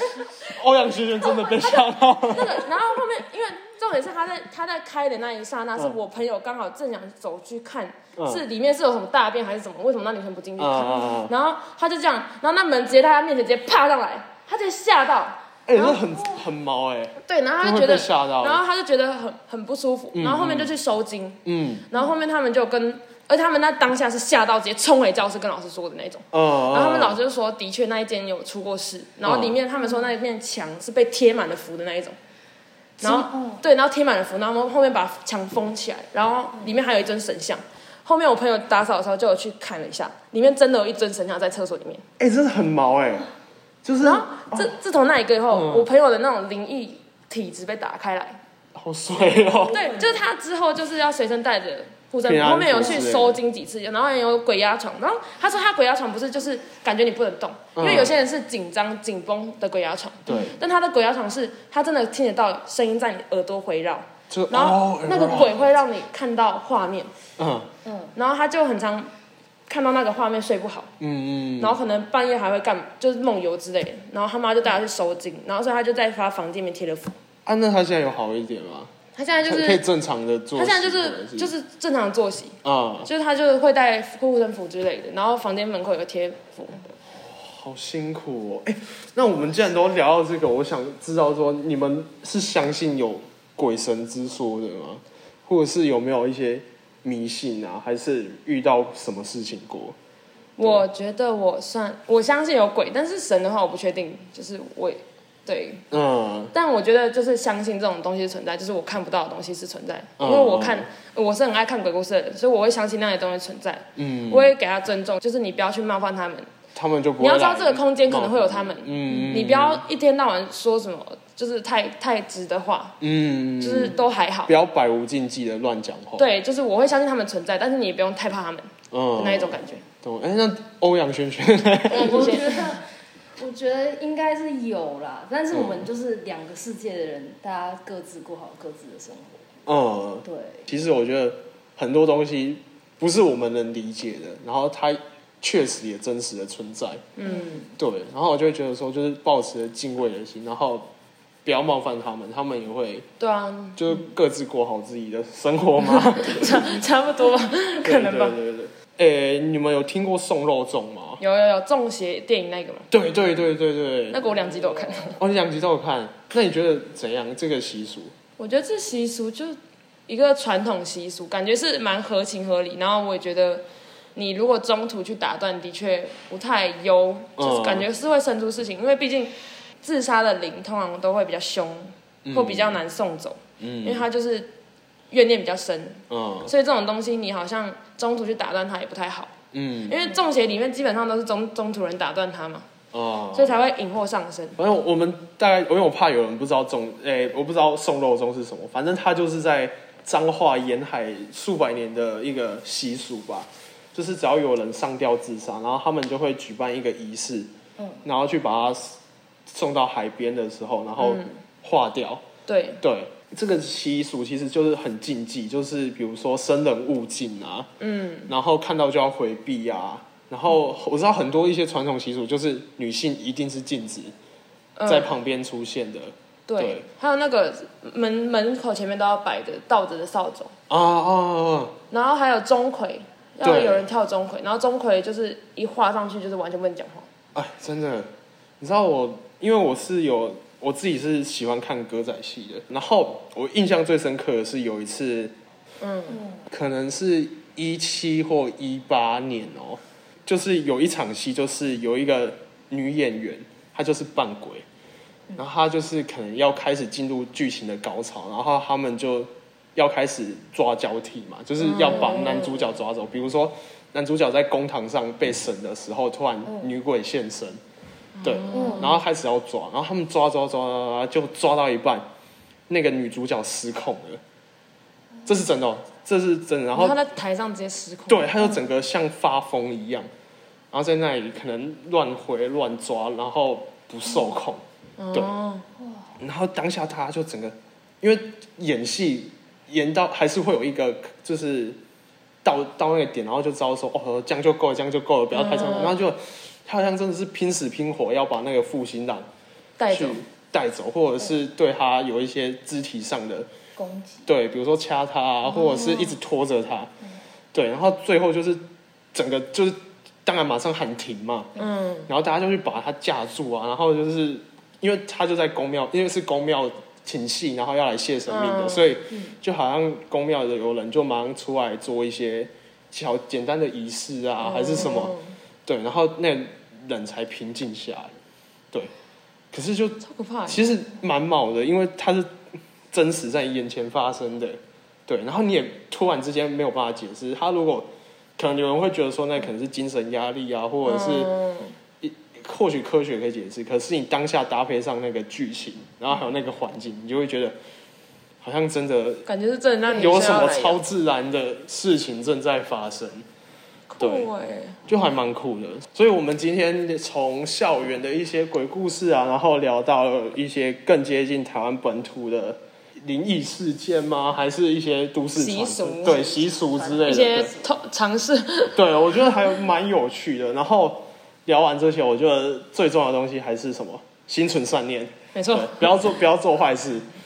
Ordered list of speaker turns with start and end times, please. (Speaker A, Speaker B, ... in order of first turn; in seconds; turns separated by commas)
Speaker A: 0.5-2.6, Speaker B: 1.4-1.7, Speaker B: 2.3-16.3, Speaker A: 8.2-8.4, Speaker A: 10.6-11.3, Speaker A: 15.7-18.6, Speaker B: 17.2-32.2, Speaker A: 20.1-20.7, Speaker A: 21.5-21.9, Speaker A: 26.3-27.2, Speaker A: 29.2-29.6, Speaker B: 33.0-42.0, Speaker C: 33.0-33.6, Speaker A: 42.2-43.3, Speaker A: 43.8-44.7, Speaker B: 44.0-48.4, Speaker A: 45.5-45.9, Speaker A: 48.8-50.0, Speaker B: 49.7-67.1, Speaker A: 52.2-53.4, Speaker A: 57.8-58.1, Speaker A: 60.3-60.5, Speaker A: 64.3-65.6, Speaker A: 67.4-67.7, Speaker C: 67.8-68.1, Speaker B: 68.2-69.1, Speaker B: 69.7-70.9, Speaker A: 71.0-71.8, Speaker B: 71.6-77.2, Speaker A: 77.5-78.9, Speaker B: 79.2-79.8, Speaker A: 79.5-81.5, Speaker B: 80.5-86.9, Speaker A: 82.6-83.1, Speaker A: 87.1-100.0, Speaker B: 100.6-105.8, Speaker A: 105.9-106.5, Speaker B: 106.5-116.5, Speaker A: 110.2-110.9, Speaker A: 114.0-114.5, Speaker A: 116.8-119.8, Speaker B: 117.2-123.0, Speaker C: 119.1-119.4, Speaker A: 123.0-126.3, Speaker B: 123.6-124.5, Speaker B: 126.2-129.9, Speaker A: 128.9-132.4, Speaker C: 131.9-139.4, Speaker B: 131.9-132.8, Speaker A: 135.5-135.9, Speaker A: 139.7-147.1, Speaker C: 140.2-140.7, Speaker B: 147.2-147.7, Speaker A: 147.7-150.9, Speaker A: 151.4-153.1, Speaker B: 153.2-153.8, Speaker A: 153.8-156.8, Speaker B: 155.9-158.4, Speaker A: 157.8-161.2, Speaker B: 161.2-162.9, Speaker A: 162.9-164.2, Speaker B: 164.1-165.2, Speaker A: 165.2-168.1, Speaker B: 168.4-169.6, Speaker B: 170.1-184.5, Speaker A: 177.4-177.9, Speaker A: 182.3-182.8, Speaker A: 183.6-184.1, Speaker B: 185.1-189.3, Speaker A: 186.1-186.5, Speaker A: 189.5-190.0, Speaker B: 189.9-192.7, Speaker A: 192.9-193.6, Speaker B: 193.3-194.6, Speaker A: 194.6-207.5, Speaker A: 208.0-212.2, Speaker B: 211.0-211.3, Speaker B: 212.5-212.8, Speaker A: 212.8-217.7, Speaker B: 217.8-218.3, Speaker A: 218.3-224.1, Speaker B: 224.8-225.1, Speaker A: 224.9-226.8, Speaker B: 226.5-230.5, Speaker A: 230.7-231.8, Speaker B: 231.9-237.1, Speaker A: 233.4-233.9, Speaker A: 237.3-245.3, Speaker B: 245.8-246.2, Speaker A: 246.5-254.7, Speaker A: 255.4-267.6, Speaker B: 261.6-262.6, Speaker C: 266.5-266.8, Speaker B: 268.2-269.0, Speaker A: 268.2-272.1, Speaker C: 268.5-269.0, Speaker A: 272.7-274.2, Speaker A: 275.3-277.0, Speaker B: 276.7-278.5, Speaker A: 278.1-280.1, Speaker A: 280.7-285.3, Speaker B: 285.0-285.7, Speaker C: 285.8-286.1, Speaker A: 286.2-291.8, Speaker A: 292.4-299.3, Speaker B: 295.3-296.0, Speaker B: 299.8-300.2, Speaker A: 299.9-303.5, Speaker C: 303.8-304.3, Speaker A: 304.3-306.9, Speaker A: 307.5-311.5, Speaker B: 311.6-312.1, Speaker A: 312.1-325.1, Speaker B: 318.3-318.9, Speaker B: 324.4-325.4, Speaker A: 325.7-328.1, Speaker A: 329.5-332.3, Speaker B: 330.0-330.6, Speaker A: 332.9-341.3, Speaker B: 340.9-341.8, Speaker A: 342.0-347.6, Speaker A: 348.4-349.2, Speaker B: 349.3-350.8, Speaker A: 349.9-353.3, Speaker B: 353.9-354.8, Speaker A: 354.0-354.3, Speaker A: 354.9-367.5, Speaker B: 365.4-366.2, Speaker C: 366.3-367.5, Speaker B: 367.0-368.8, Speaker A: 368.7-377.1, Speaker B: 375.4-375.9